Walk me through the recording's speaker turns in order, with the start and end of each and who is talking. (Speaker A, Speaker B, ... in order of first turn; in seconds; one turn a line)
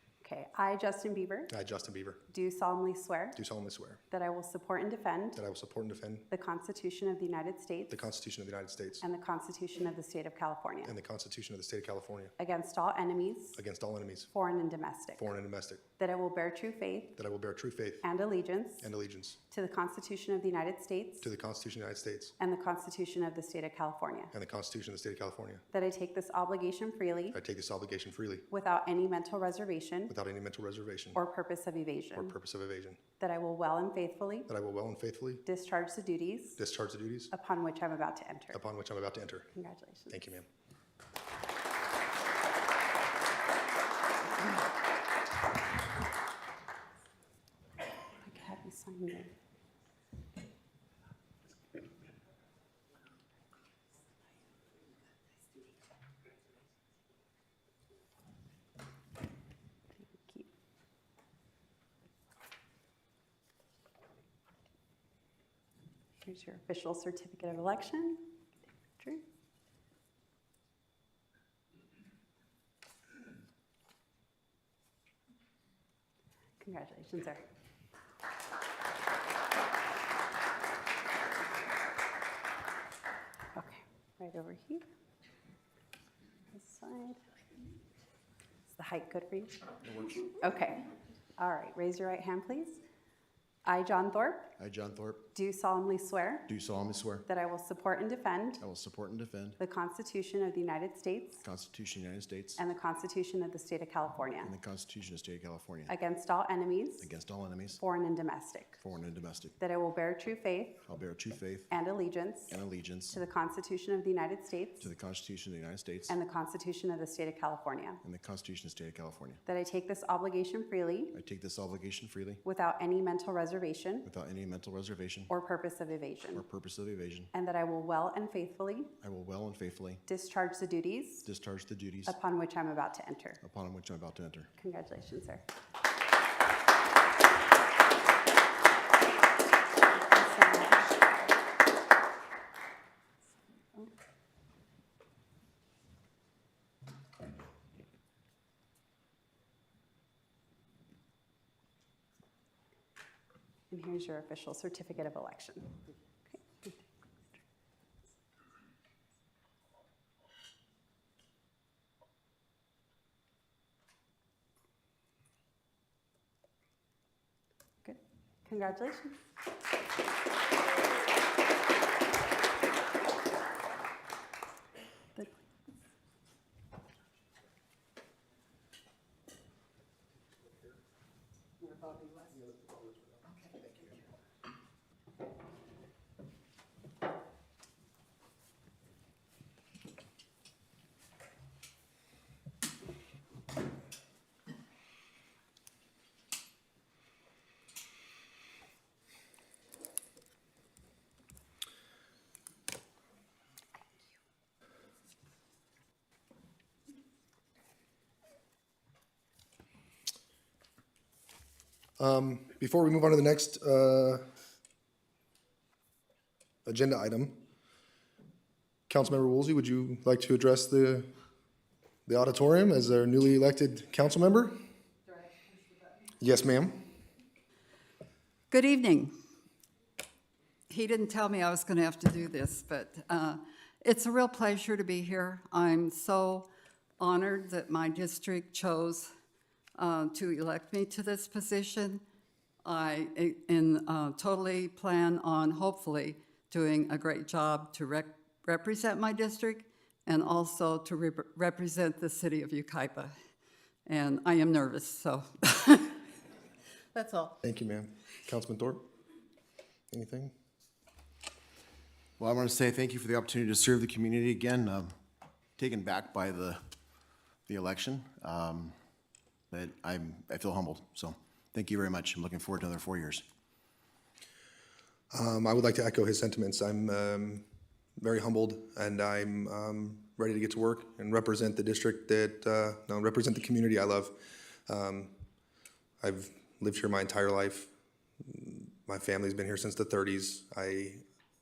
Speaker A: 0.2-1.5
Speaker B: 1.5-2.2
Speaker A: 2.3-3.4
Speaker B: 3.4-4.0
Speaker A: 4.1-5.4
Speaker B: 5.3-6.3
Speaker A: 6.3-8.0
Speaker B: 7.9-9.0
Speaker A: 9.0-10.9
Speaker B: 10.9-12.3
Speaker A: 12.4-13.6
Speaker B: 13.5-14.3
Speaker A: 14.3-15.2
Speaker B: 15.2-15.8
Speaker A: 16.0-17.1
Speaker B: 17.2-18.0
Speaker A: 18.0-18.9
Speaker B: 18.8-19.4
Speaker A: 19.5-21.3
Speaker B: 21.2-22.3
Speaker A: 22.4-24.3
Speaker B: 24.3-25.6
Speaker A: 25.7-27.4
Speaker B: 27.3-28.4
Speaker A: 28.5-30.1
Speaker B: 30.1-31.2
Speaker A: 31.1-32.3
Speaker B: 32.1-33.0
Speaker A: 33.2-34.5
Speaker B: 34.5-35.4
Speaker A: 35.5-36.6
Speaker B: 36.6-37.3
Speaker A: 37.3-38.6
Speaker B: 38.5-39.5
Speaker A: 39.5-40.2
Speaker B: 40.1-40.5
Speaker A: 48.2-49.3
Speaker A: 60.0-60.5
Speaker A: 66.2-68.3
Speaker A: 69.0-69.2
Speaker A: 76.6-77.4
Speaker A: 83.5-84.8
Speaker A: 86.5-87.2
Speaker A: 88.7-89.7
Speaker C: 89.9-90.2
Speaker A: 90.2-90.9
Speaker A: 91.4-92.8
Speaker A: 93.6-94.5
Speaker C: 94.6-95.2
Speaker A: 95.3-96.5
Speaker C: 96.5-97.2
Speaker A: 97.3-98.6
Speaker C: 98.6-99.6
Speaker A: 99.6-101.4
Speaker C: 101.4-102.6
Speaker A: 102.6-104.5
Speaker C: 104.4-105.9
Speaker A: 105.9-107.1
Speaker C: 107.0-107.8
Speaker A: 107.7-108.8
Speaker C: 108.8-109.5
Speaker A: 109.6-110.8
Speaker C: 110.8-111.7
Speaker A: 111.7-112.6
Speaker C: 112.5-113.2
Speaker A: 113.1-114.9
Speaker C: 114.8-116.1
Speaker A: 116.1-118.0
Speaker C: 118.0-119.4
Speaker A: 119.5-121.1
Speaker C: 121.1-122.4
Speaker A: 122.4-124.1
Speaker C: 124.0-125.3
Speaker A: 125.3-126.5
Speaker C: 126.3-127.3
Speaker A: 127.3-128.9
Speaker C: 129.0-130.0
Speaker A: 130.1-131.2
Speaker C: 131.2-132.2
Speaker A: 132.0-133.4
Speaker C: 133.4-134.5
Speaker A: 134.6-135.4
Speaker A: 139.9-141.3
Speaker A: 153.7-156.8
Speaker A: 167.8-169.2
Speaker B: 182.3-183.9
Speaker B: 212.0-214.2
Speaker B: 216.7-217.3
Speaker B: 218.9-221.1
Speaker B: 222.1-224.5
Speaker B: 226.2-226.8
Speaker D: 228.5-229.1
Speaker D: 230.7-236.4
Speaker D: 237.0-239.1
Speaker D: 239.8-242.0
Speaker D: 242.6-253.1
Speaker D: 253.8-256.0
Speaker D: 257.0-257.3
Speaker B: 257.4-258.8
Speaker B: 259.9-260.3
Speaker C: 262.2-264.9
Speaker C: 265.6-266.6
Speaker C: 267.5-268.8
Speaker C: 269.5-273.2
Speaker B: 275.1-277.4
Speaker B: 278.0-284.1
Speaker B: 284.7-285.1
Speaker B: 286.0-287.7
Speaker B: 288.2-291.0